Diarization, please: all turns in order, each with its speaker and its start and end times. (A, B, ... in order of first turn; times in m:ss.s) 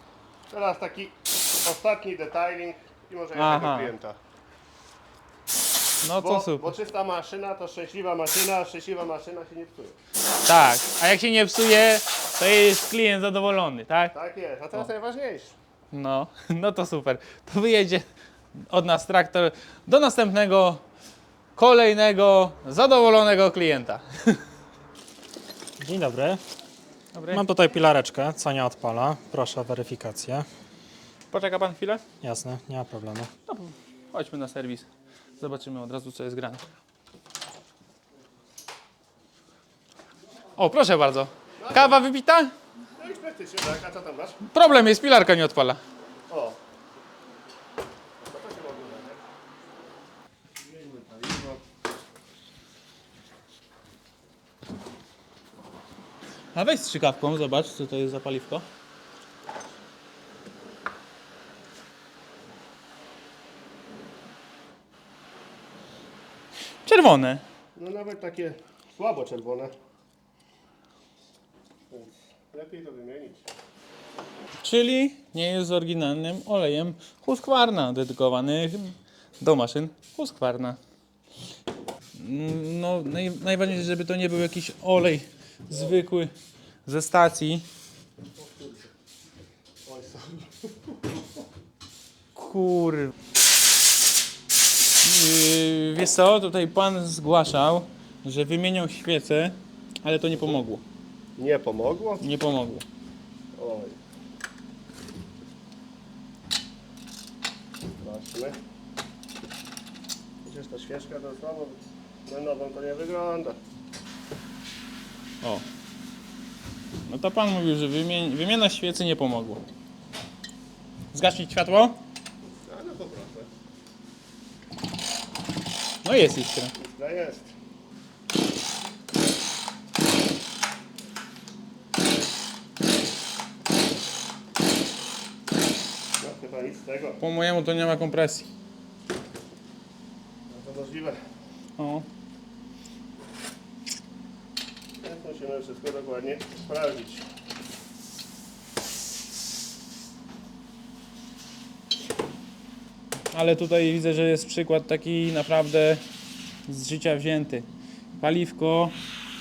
0:00.5-0:04.2 A
0:03.4-0:03.9 B
0:06.0-0:06.8 B
0:06.2-0:10.0 A
0:10.4-0:14.1 B
0:14.1-0:15.6 A
0:15.9-0:20.8 B
0:21.6-0:24.4 B
0:25.8-0:26.4 C
0:27.1-0:27.5 B
0:27.3-0:30.5 C
0:31.3-0:32.0 B
0:32.2-0:33.3 C
0:33.5-0:34.9 B
0:35.4-0:36.7 B
0:40.6-0:42.5 B
0:41.6-0:42.0 A
0:43.0-0:44.4 A
0:44.5-0:45.8 B
0:46.3-0:46.6 A
0:48.2-0:49.2 A
0:50.6-0:51.6 A
0:56.5-0:58.6 B
1:06.8-1:07.4 B
1:07.8-1:09.7 A
1:11.9-1:13.4 A
1:14.6-1:20.8 B
1:22.1-1:26.3 B
1:25.7-1:26.0 A
1:26.9-1:27.7 B
1:28.4-1:28.9 A
1:29.9-1:30.7 A
1:32.4-1:33.1 B
1:35.0-1:40.8 B
1:41.4-1:42.2 A
1:42.2-1:42.8 B
1:43.6-1:44.0 A
1:48.0-1:48.6 A
1:50.4-1:53.6 A
1:57.1-1:59.6 B
2:01.1-2:02.0 B
2:02.6-2:03.5 A
2:06.0-2:06.7 B
2:06.7-2:07.6 A
2:16.2-2:17.2 A
2:17.2-2:18.5 B
2:20.5-2:21.2 A
2:21.8-2:22.1 B
2:25.0-2:27.2 A
2:33.3-2:36.0 B
2:36.7-2:37.7 B
2:38.2-2:39.0 B